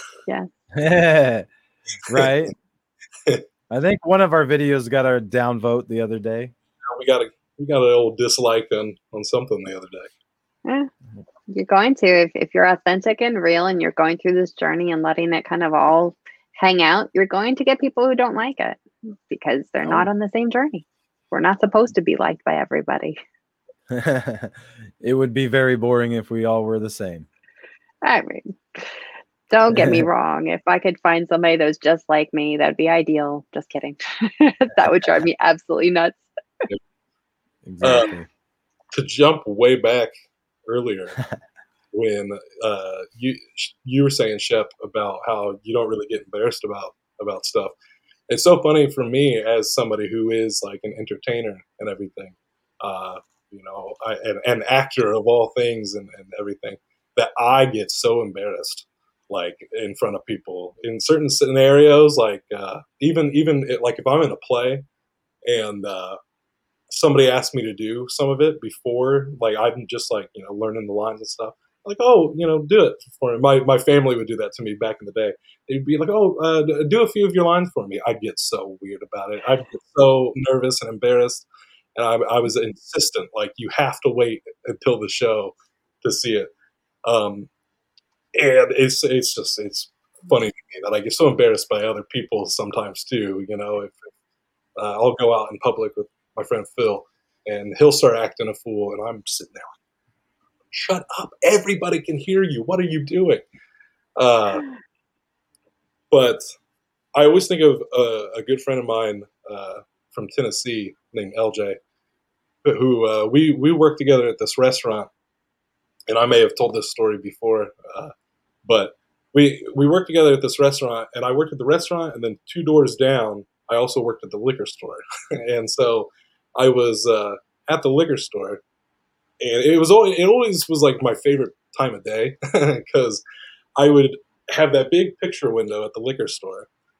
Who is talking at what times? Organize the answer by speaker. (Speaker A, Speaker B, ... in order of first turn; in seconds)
Speaker A: 0.7-1.5, 2.1-2.5, 3.7-6.5, 19.8-20.1, 23.9-27.3, 29.7-30.1, 37.6-38.3
Speaker B: 6.9-10.1, 37.8-38.1, 38.9-40.1, 40.7-41.2, 41.9-47.7, 48.3-64.8, 65.5-66.2, 66.9-86.5, 87.0-87.5, 88.3-94.1, 94.8-99.7, 100.7-103.5, 104.2-104.7, 106.1-106.4, 107.2-111.8, 112.7-115.1, 116.1-118.1, 118.7-128.6, 129.4-133.2, 133.8-136.7
Speaker C: 10.7-10.9, 11.5-23.2, 28.0-28.9, 29.5-36.7